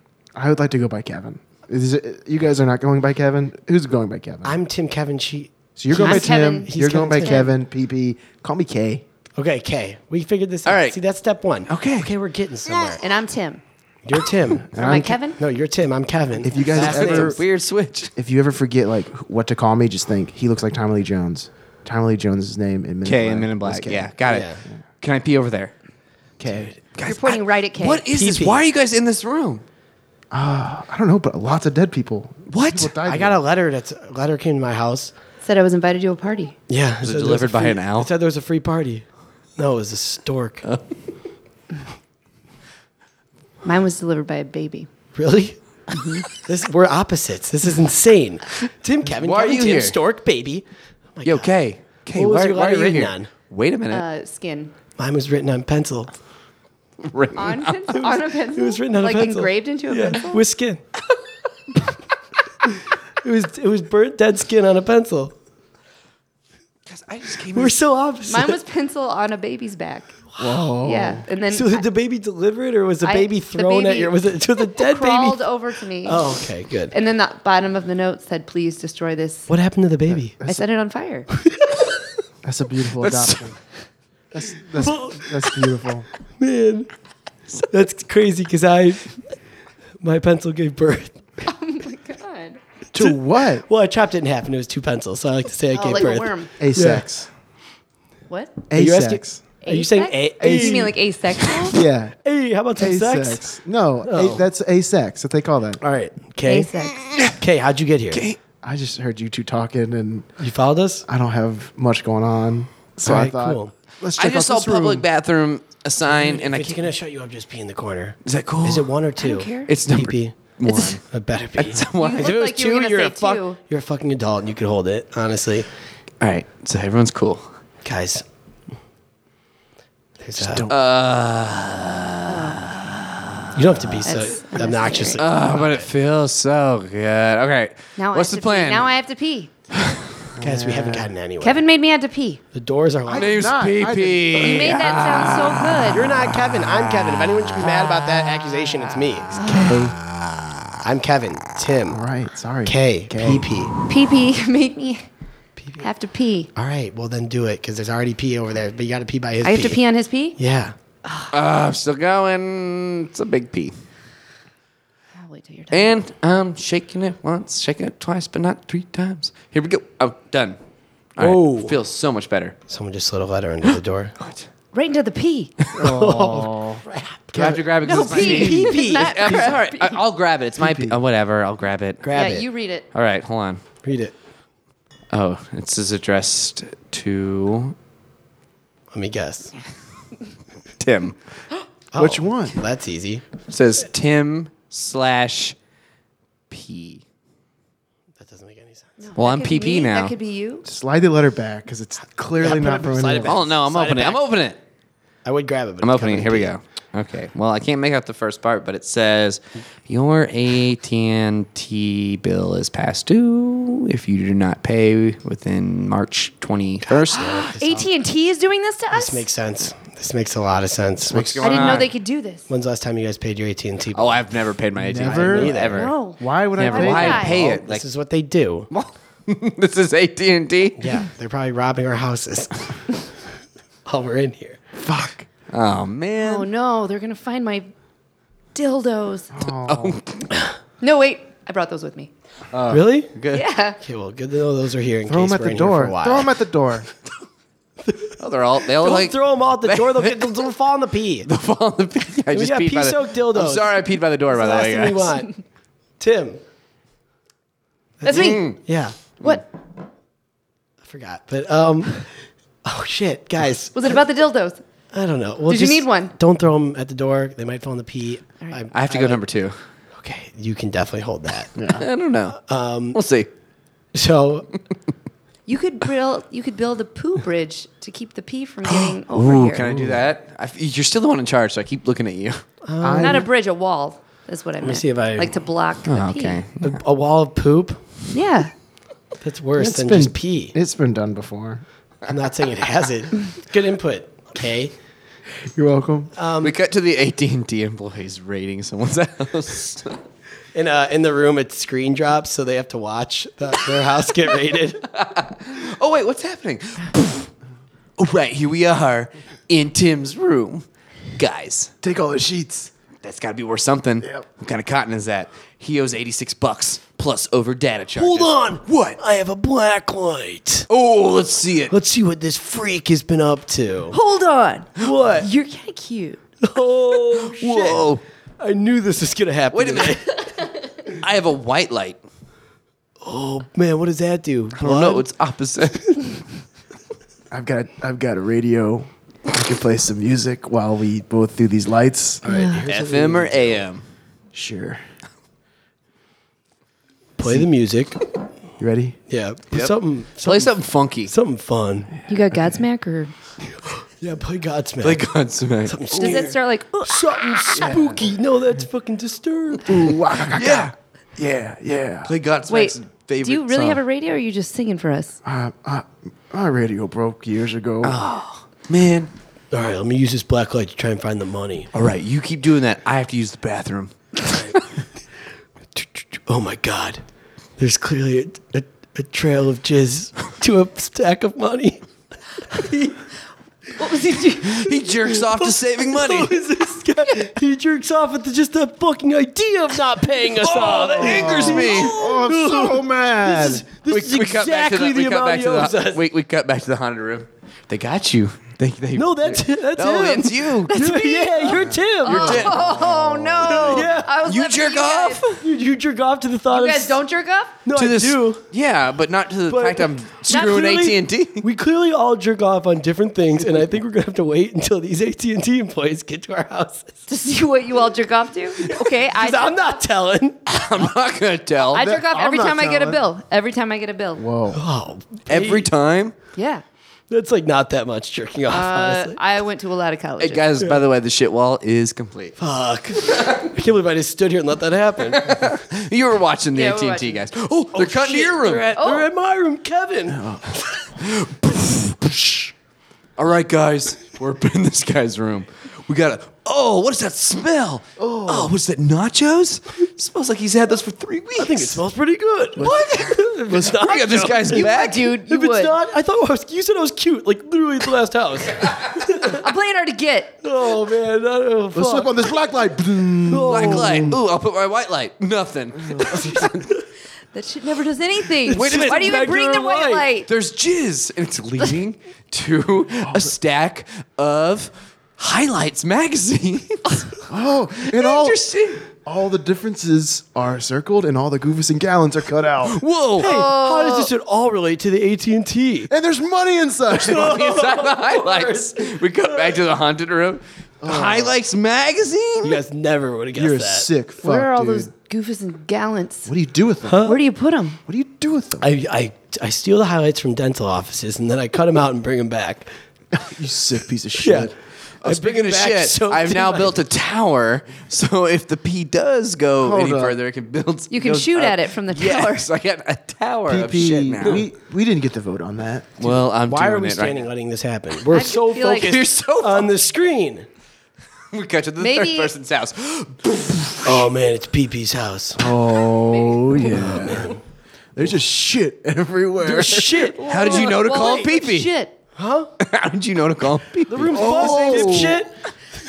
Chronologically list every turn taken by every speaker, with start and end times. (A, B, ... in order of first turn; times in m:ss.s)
0:00.4-0:04.6 A
0:04.4-0:07.5 B
0:05.8-0:09.0 A
0:05.9-0:07.5 C
0:09.4-0:13.0 B
0:10.6-0:11.0 D
0:11.7-0:12.1 D
0:13.0-0:13.6 C
0:14.0-0:17.4 B
0:14.7-0:15.2 A
0:14.8-0:15.4 C
0:16.4-0:17.4 A
0:16.7-0:18.1 D
0:18.2-0:24.1 A
0:23.0-0:24.5 D
0:24.3-0:24.6 B
0:25.0-0:25.7 D
0:26.4-0:26.8 A
0:26.9-0:29.6 D
0:27.0-0:28.1 C
0:28.1-0:28.6 B
0:30.3-0:33.4 A
0:32.5-0:32.9 D
0:33.0-0:35.1 B
0:35.4-0:36.6 C
0:36.7-0:39.0 B
0:37.0-0:38.1 D
0:39.6-0:40.6 B
0:43.6-0:44.9 C
0:45.2-0:45.6 B
0:46.3-0:51.5 B
0:49.1-0:50.0 D
0:51.2-0:54.0 D
0:52.2-0:53.3 B
0:53.9-0:54.7 C
0:55.0-0:56.1 B
0:57.0-0:57.9 D
0:57.4-1:00.4 C
0:57.9-1:00.8 B
1:03.2-1:05.4 B
1:06.9-1:07.8 D
1:07.5-1:08.6 B
1:08.2-1:10.2 C
1:10.4-1:11.2 A
1:10.8-1:11.9 C
1:11.5-1:15.4 B
1:13.0-1:19.5 C
1:16.0-1:16.9 B
1:19.5-1:20.4 B
1:20.1-1:20.6 A
1:20.4-1:21.3 C
1:22.4-1:23.6 A
1:23.0-1:23.5 D
1:24.3-1:26.1 A
1:24.8-1:25.7 B
1:26.4-1:26.9 B
1:27.7-1:29.2 B
1:30.0-1:31.4 B
1:31.5-1:32.6 C
1:32.9-1:33.7 A
1:33.0-1:37.0 B
1:35.7-1:36.5 C
1:36.6-1:37.3 A
1:38.3-1:38.6 C
1:38.7-1:39.4 A
1:38.7-1:41.0 B
1:39.6-1:41.8 C
1:40.4-1:41.0 A
1:41.7-1:42.2 A
1:42.2-1:43.4 B
1:42.8-1:45.8 A
1:44.1-1:44.4 B
1:45.8-1:46.7 B
1:46.4-1:47.0 C
1:47.0-1:47.4 D
1:47.3-1:48.2 B
1:48.1-1:48.4 D
1:48.6-1:50.4 A
1:50.4-1:51.1 B
1:51.1-1:55.1 A
1:53.0-1:53.7 B
1:54.2-1:56.8 D
1:56.1-2:05.7 B
1:58.2-1:58.9 D
1:59.2-1:59.7 C
1:59.7-2:01.0 D
2:01.6-2:02.4 D
2:02.0-2:03.6 C
2:06.2-2:07.5 D
2:07.8-2:08.2 B
2:10.2-2:10.7 B
2:10.4-2:10.8 A
2:10.6-2:13.6 D
2:12.3-2:12.6 C
2:13.6-2:15.9 B
2:14.0-2:15.2 C
2:15.2-2:18.9 D
2:18.0-2:19.5 C
2:19.7-2:20.3 D
2:20.4-2:21.1 A
2:20.4-2:21.6 B
2:21.4-2:22.4 C
2:22.5-2:23.4 B
2:23.1-2:24.7 A
2:23.1-2:30.9 D
2:24.4-2:26.1 C
2:25.9-2:29.6 B
2:29.4-2:29.7 C
2:29.5-2:30.0 A
2:30.8-2:32.0 B
2:31.9-2:33.5 A
2:32.7-2:33.7 B
2:33.9-2:35.1 C
2:35.6-2:35.8 B
2:35.8-2:36.5 C
2:36.6-2:39.8 B
2:39.4-2:40.4 C
2:40.4-2:40.8 B
2:41.3-2:43.7 D
2:45.2-2:45.9 C
2:45.7-2:50.6 D
2:51.2-2:52.6 D
2:51.2-2:51.8 B
2:52.7-2:54.2 B
2:54.7-2:55.6 C
2:55.7-3:02.1 D
2:55.8-2:59.5 B
2:57.8-3:00.0 C
3:00.6-3:01.0 A
3:02.0-3:02.5 B
3:02.1-3:02.9 C
3:02.9-3:03.6 D
3:03.8-3:04.1 B
3:05.1-3:07.8 D
3:08.9-3:09.5 B
3:10.8-3:11.2 D
3:11.9-3:13.2 B
3:12.0-3:12.6 A
3:13.5-3:15.6 D
3:16.5-3:17.0 D
3:18.2-3:19.0 B
3:19.0-3:20.6 C
3:19.2-3:20.1 D
3:20.6-3:23.4 A
3:22.4-3:24.2 B
3:23.2-3:24.6 D
3:25.2-3:26.5 B
3:25.8-3:37.5 D
3:36.8-3:37.9 B
3:37.2-3:39.3 C
3:38.9-3:41.4 B
3:41.1-3:41.9 D
3:41.1-3:41.6 A
3:41.4-3:42.5 C
3:42.5-3:44.2 B
3:43.9-3:45.9 D
3:44.8-3:47.4 A
3:45.0-3:45.9 B
3:45.7-3:47.4 C
3:46.6-3:47.8 D
3:47.2-3:48.7 B
3:48.7-3:51.0 D
3:50.8-3:53.0 B
3:53.8-3:54.6 B
3:54.8-3:55.3 A
3:55.5-3:56.5 D
3:56.2-3:57.7 C
3:58.6-3:59.3 C
3:59.3-4:00.0 A
3:59.6-4:00.3 D
4:00.8-4:02.1 C
4:02.5-4:03.5 D
4:02.7-4:03.1 B
4:03.3-4:03.8 C
4:03.8-4:06.3 B
4:05.1-4:06.9 A
4:07.8-4:08.1 B
4:08.2-4:10.5 D
4:08.7-4:11.3 B
4:11.2-4:15.2 D
4:12.3-4:15.4 B
4:16.0-4:16.4 B
4:18.0-4:19.0 B
4:18.0-4:18.6 C
4:18.1-4:18.6 D
4:20.8-4:23.8 B
4:23.8-4:24.6 C
4:24.9-4:29.2 B
4:25.5-4:26.1 C
4:28.7-4:29.6 D
4:29.9-4:31.5 B
4:31.6-4:31.8 A
4:31.7-4:32.4 D
4:32.3-4:33.0 B
4:32.9-4:33.3 D
4:33.9-4:34.5 B
4:35.5-4:39.6 C
4:38.7-4:42.4 D
4:39.6-4:40.0 A
4:42.6-4:43.3 B
4:42.8-4:43.3 A
4:43.0-4:46.4 C
4:44.6-4:45.3 B
4:45.9-4:46.8 D
4:46.6-4:47.8 B
4:48.1-4:48.5 C
4:49.2-4:50.6 B
4:49.6-4:51.6 A
4:52.1-4:54.7 B
4:55.5-4:56.1 A
4:56.2-4:56.6 B
4:56.4-5:00.0 D
5:00.5-5:04.9 B
5:04.9-5:07.3 D
5:08.0-5:10.6 D
5:11.2-5:11.7 D
5:11.8-5:12.7 A
5:13.0-5:19.0 D
5:18.0-5:20.7 B
5:20.7-5:21.7 D
5:21.7-5:24.0 B
5:23.9-5:26.2 C
5:24.8-5:25.3 B
5:26.4-5:27.9 B
5:27.1-5:28.0 D
5:28.4-5:30.2 B
5:29.5-5:30.0 D
5:30.9-5:32.0 D
5:33.0-5:35.1 B
5:34.6-5:36.0 D
5:37.3-5:42.3 A
5:42.2-5:43.6 B
5:42.2-5:42.6 C
5:42.7-5:43.8 D
5:44.3-5:44.8 A
5:47.2-5:48.0 B
5:47.2-5:47.5 A
5:48.6-5:49.0 A
5:49.1-5:50.6 B
5:49.5-5:51.1 D
5:51.1-5:51.9 B
5:52.1-5:53.1 C
5:53.6-5:55.0 B
5:54.8-5:56.1 D
5:55.7-5:59.9 B
5:55.9-5:57.8 C
5:57.6-5:58.0 A
5:59.6-6:02.1 A
6:00.3-6:00.7 D
6:02.0-6:03.8 D
6:02.5-6:05.2 C
6:05.2-6:08.0 A
6:07.8-6:09.1 D
6:09.5-6:11.7 B
6:11.7-6:13.9 D
6:14.2-6:14.6 B
6:15.8-6:17.0 B
6:17.6-6:21.8 B
6:22.5-6:23.0 B
6:23.8-6:24.8 C
6:24.4-6:26.4 D
6:25.1-6:36.0 B
6:30.4-6:32.0 D
6:30.7-6:33.7 A
6:33.9-6:40.8 D
6:39.0-6:42.5 B
6:40.7-6:45.4 C
6:41.5-6:41.8 A
6:42.0-6:45.4 D
6:42.6-6:43.5 A
6:43.5-6:44.1 B
6:45.4-6:47.0 B
6:46.5-6:47.6 C
6:47.6-6:48.4 B
6:47.8-6:51.5 D
6:49.5-6:57.0 B
6:57.1-6:59.8 C
6:58.6-7:00.4 B
7:00.5-7:01.8 D
7:01.7-7:03.0 A
7:01.7-7:04.2 C
7:04.2-7:04.6 A
7:04.5-7:05.7 B
7:05.3-7:06.2 D
7:06.4-7:06.6 C
7:07.1-7:09.2 B
7:08.5-7:10.4 C
7:10.2-7:12.4 D
7:12.4-7:15.5 B
7:15.1-7:18.7 D
7:16.6-7:17.2 C
7:17.7-7:20.3 B
7:18.8-7:19.1 C
7:20.1-7:20.5 A
7:21.0-7:22.5 D
7:23.2-7:31.8 D
7:28.0-7:28.5 A
7:31.4-7:34.7 B
7:32.6-7:32.9 A
7:32.6-7:35.1 D
7:33.5-7:33.9 A
7:34.4-7:35.8 C
7:35.3-7:39.4 B
7:39.3-7:40.4 C
7:40.4-7:42.2 B
7:41.7-7:44.2 A
7:43.3-7:44.1 B
7:43.4-7:46.7 D
7:45.9-7:46.2 A
7:46.1-7:46.8 B
7:47.3-7:50.3 C
7:48.4-7:50.1 B
7:48.5-7:49.3 D
7:50.3-7:57.1 D
7:53.1-7:53.3 A
7:57.3-8:02.8 A
7:57.8-7:58.8 D
8:02.7-8:03.3 D
8:03.2-8:04.1 C
8:03.2-8:05.9 B
8:05.9-8:07.5 A
8:06.9-8:12.6 D
8:07.0-8:09.6 B
8:10.8-8:11.4 A
8:12.4-8:13.9 B
8:13.4-8:14.9 A
8:14.2-8:16.3 C
8:16.3-8:17.2 A
8:16.9-8:17.2 B
8:17.0-8:17.8 C
8:17.9-8:18.7 A
8:18.6-8:22.7 B
8:23.1-8:24.5 A
8:24.2-8:26.8 B
8:25.0-8:34.4 D
8:29.6-8:30.2 A
8:30.9-8:32.5 C
8:33.5-8:36.1 A
8:36.0-8:37.3 D
8:36.1-8:40.5 B
8:38.1-8:39.0 C
8:38.6-8:39.7 D
8:41.3-8:44.1 D
8:41.8-8:42.3 C
8:43.8-8:45.5 B
8:45.4-8:47.4 A
8:46.2-8:46.5 C
8:46.6-8:47.4 B
8:48.0-8:50.2 A
8:49.4-8:51.7 D
8:49.6-8:50.7 B
8:50.3-8:51.9 C
8:52.2-8:52.5 B
8:52.6-8:55.2 D
8:53.9-8:55.3 B
8:54.1-8:55.3 A